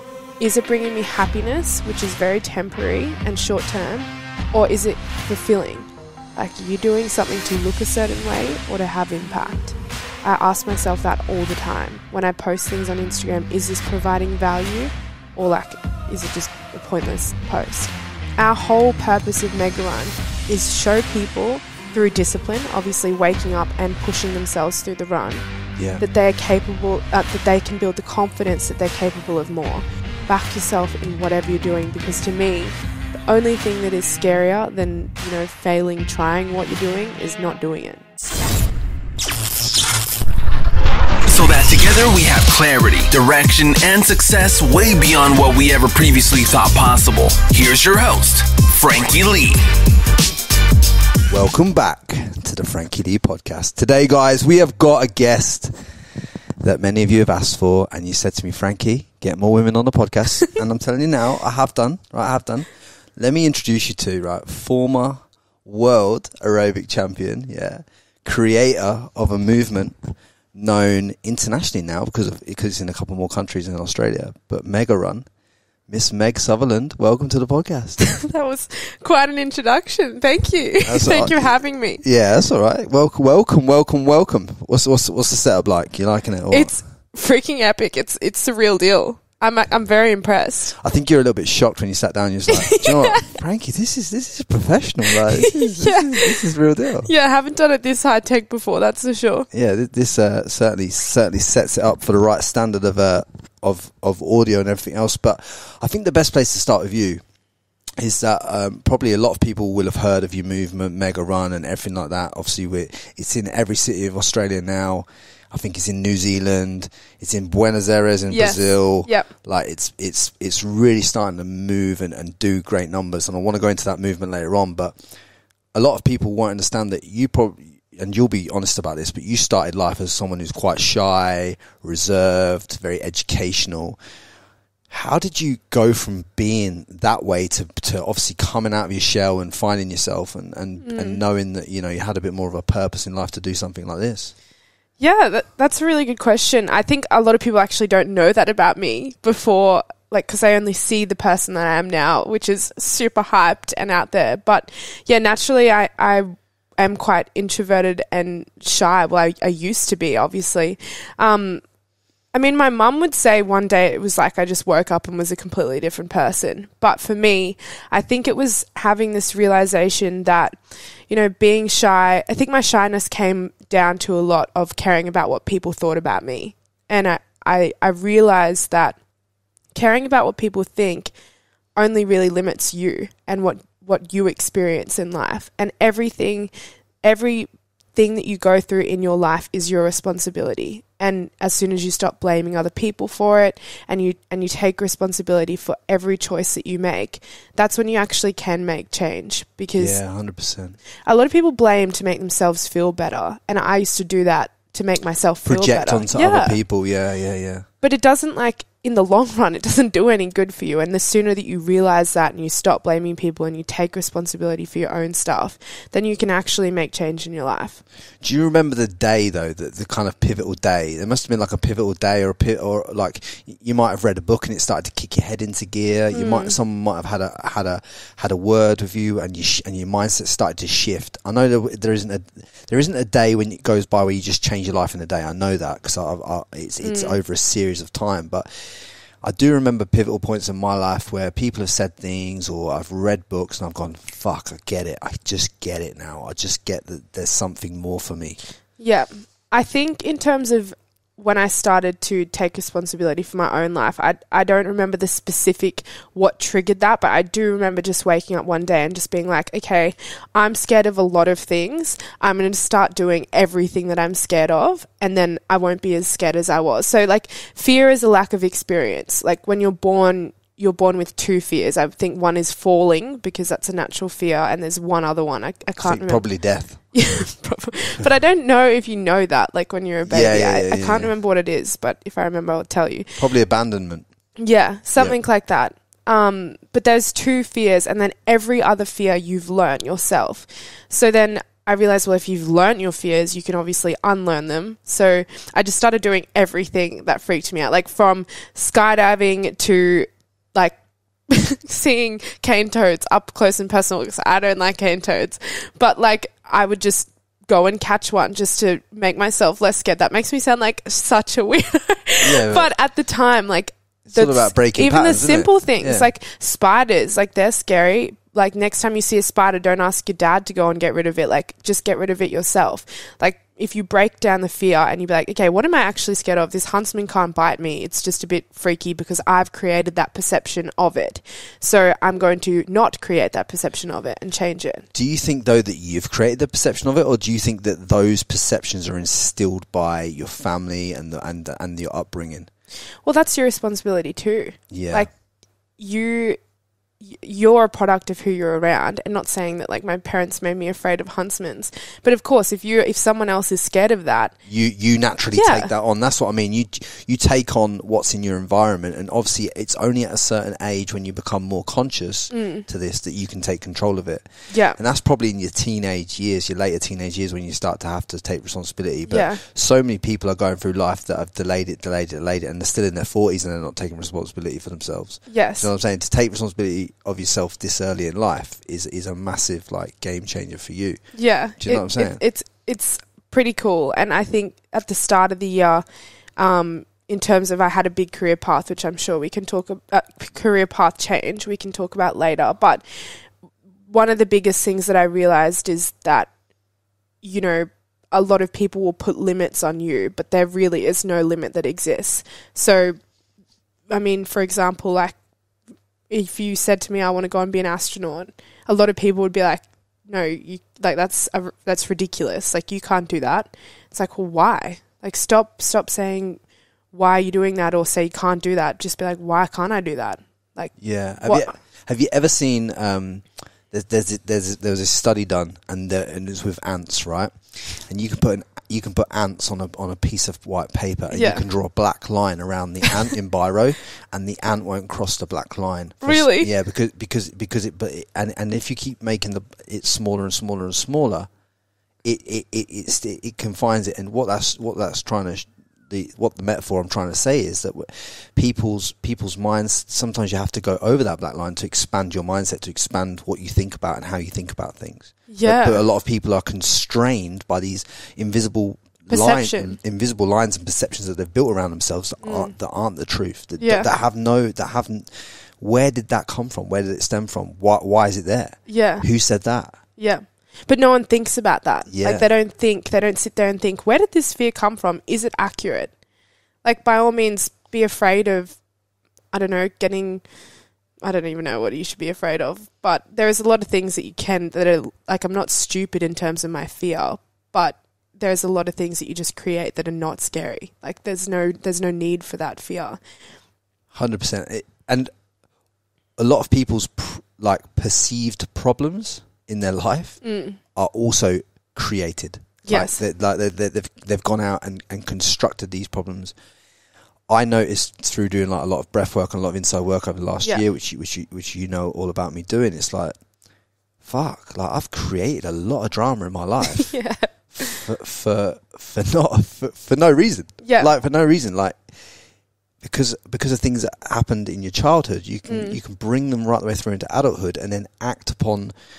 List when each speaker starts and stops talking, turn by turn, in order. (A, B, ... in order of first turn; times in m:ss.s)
0:00.4-0:25.4 A
0:25.8-0:26.0 B
0:26.0-0:32.8 A
0:33.3-0:38.1 A
0:41.3-0:49.6 C
0:51.3-0:56.0 B
0:56.6-1:10.0 B
1:10.5-1:15.3 B
1:15.9-1:18.0 B
1:18.1-1:22.0 A
1:20.8-1:26.7 B
1:26.5-1:30.8 A
1:30.8-1:37.1 B
1:32.5-1:33.3 A
1:35.1-1:36.5 A
1:37.0-1:39.5 A
1:39.5-1:47.2 B
1:48.0-2:05.0 B
1:58.3-1:59.3 A
2:05.7-2:14.0 B
2:14.9-2:24.3 B
2:20.8-2:21.2 A
2:25.0-2:41.6 A
2:42.3-2:59.0 A
2:59.7-3:01.1 A
3:01.8-3:06.5 A
3:07.0-3:20.0 A
3:19.8-3:20.8 B
3:21.1-3:26.6 A
3:25.5-3:27.7 B
3:27.8-3:37.8 A
3:38.2-4:08.4 B
3:46.1-3:46.6 A
3:56.8-3:57.2 A
4:08.8-4:36.3 A
4:35.8-4:36.8 B
4:36.9-4:43.2 A
4:40.0-4:41.1 B
4:43.2-4:44.1 B
4:44.4-5:00.8 A
5:01.3-5:34.9 A
5:12.2-5:12.7 B
5:14.1-5:16.1 B
5:34.9-5:42.5 B
5:43.0-5:45.1 A
5:44.7-5:45.1 B
5:45.8-5:46.4 A
5:47.0-5:54.4 A
5:54.5-6:22.2 B
5:55.4-5:55.7 A
6:02.3-6:02.7 A
6:04.5-6:04.8 A
6:09.1-6:09.4 A
6:15.3-6:15.7 A
6:21.1-6:25.8 A
6:26.4-6:33.3 A
6:33.9-6:36.3 A
6:37.2-6:43.0 A
6:43.9-6:45.2 A
6:46.1-6:56.4 A
6:56.9-7:01.5 A
7:00.8-7:21.3 B
7:11.1-7:11.4 A
7:16.0-7:16.5 A
7:22.0-7:49.8 B
7:35.3-7:35.8 A
7:39.1-7:39.8 A
7:42.2-7:42.5 A
7:43.6-7:44.0 A
7:48.7-7:49.1 A
7:50.0-7:55.9 A
7:51.9-7:52.3 B
7:56.6-7:58.6 A
7:59.3-8:00.2 A
8:01.0-8:13.0 A
8:13.9-8:15.1 B
8:16.2-8:20.2 B
8:20.2-8:20.6 A
8:20.8-8:26.3 B
8:22.6-8:23.0 A
8:27.3-8:33.2 B
8:34.0-8:37.0 B
8:36.8-8:37.8 A
8:37.5-8:42.0 B
8:40.6-8:40.9 A
8:42.8-8:48.7 B
8:45.5-8:45.8 A